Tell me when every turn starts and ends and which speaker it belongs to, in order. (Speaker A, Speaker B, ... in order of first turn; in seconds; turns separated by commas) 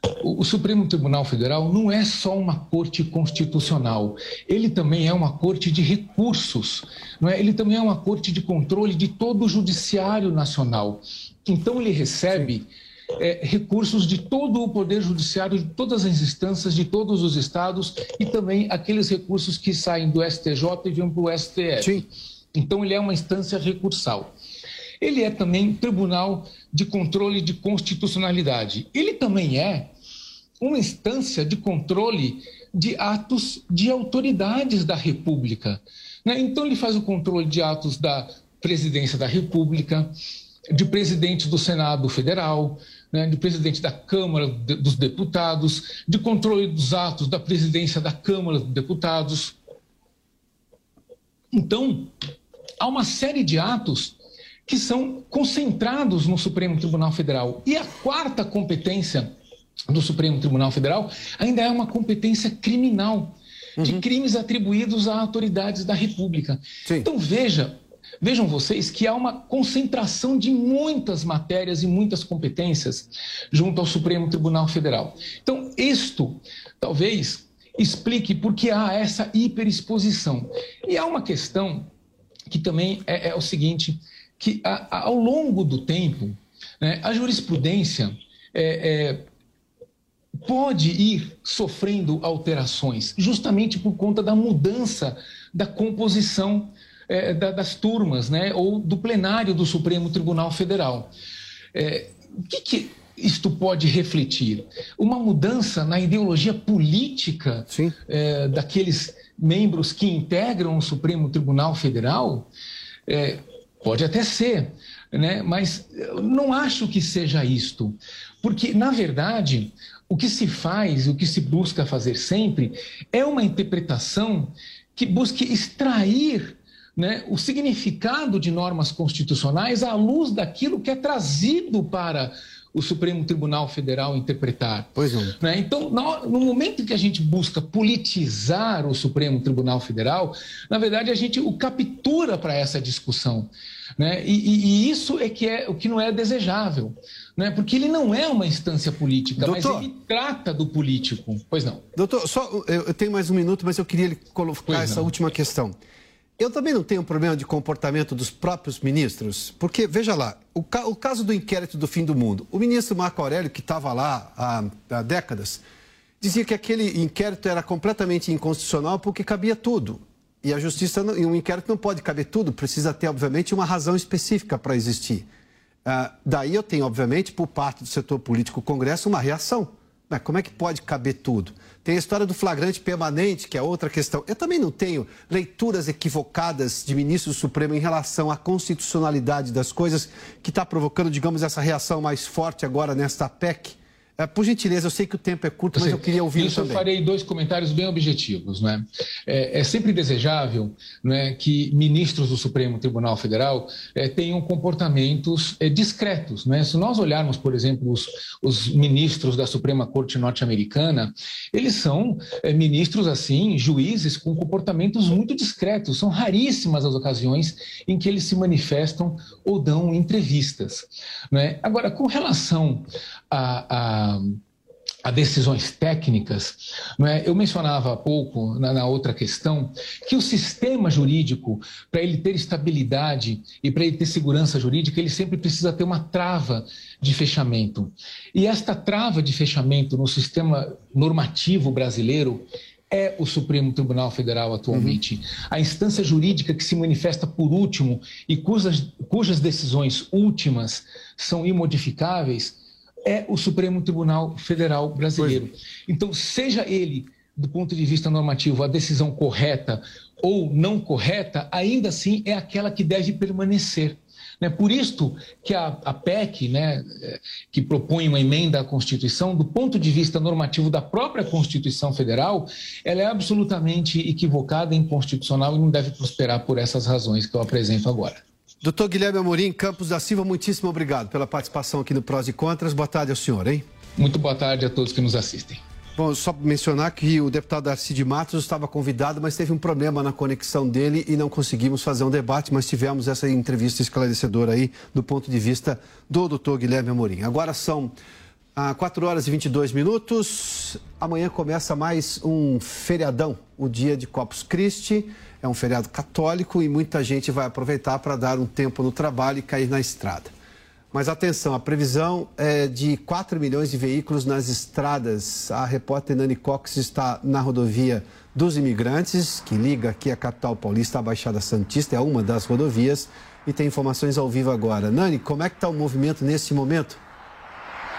Speaker A: 0.2-24.3, Speaker B: 21.8-22.1, Speaker A: 25.0-29.9, Speaker A: 30.6-40.1, Speaker A: 40.7-49.6, Speaker A: 51.5-52.1, Speaker A: 52.8-54.2, Speaker A: 54.7-59.3, Speaker A: 59.9-81.9, Speaker B: 63.8-64.0, Speaker A: 82.5-89.3, Speaker A: 90.4-101.1, Speaker A: 101.8-112.5, Speaker B: 107.7-108.0, Speaker A: 113.1-151.8, Speaker B: 135.0-135.4, Speaker B: 149.4-149.9, Speaker B: 151.9-155.8, Speaker A: 154.7-155.1, Speaker B: 156.4-165.6, Speaker B: 166.2-175.3, Speaker B: 175.8-196.8, Speaker A: 195.8-224.4, Speaker A: 225.1-278.2, Speaker B: 244.7-245.0, Speaker B: 278.6-283.6, Speaker A: 284.0-285.6, Speaker B: 286.0-297.9, Speaker B: 298.6-310.3, Speaker B: 310.9-327.0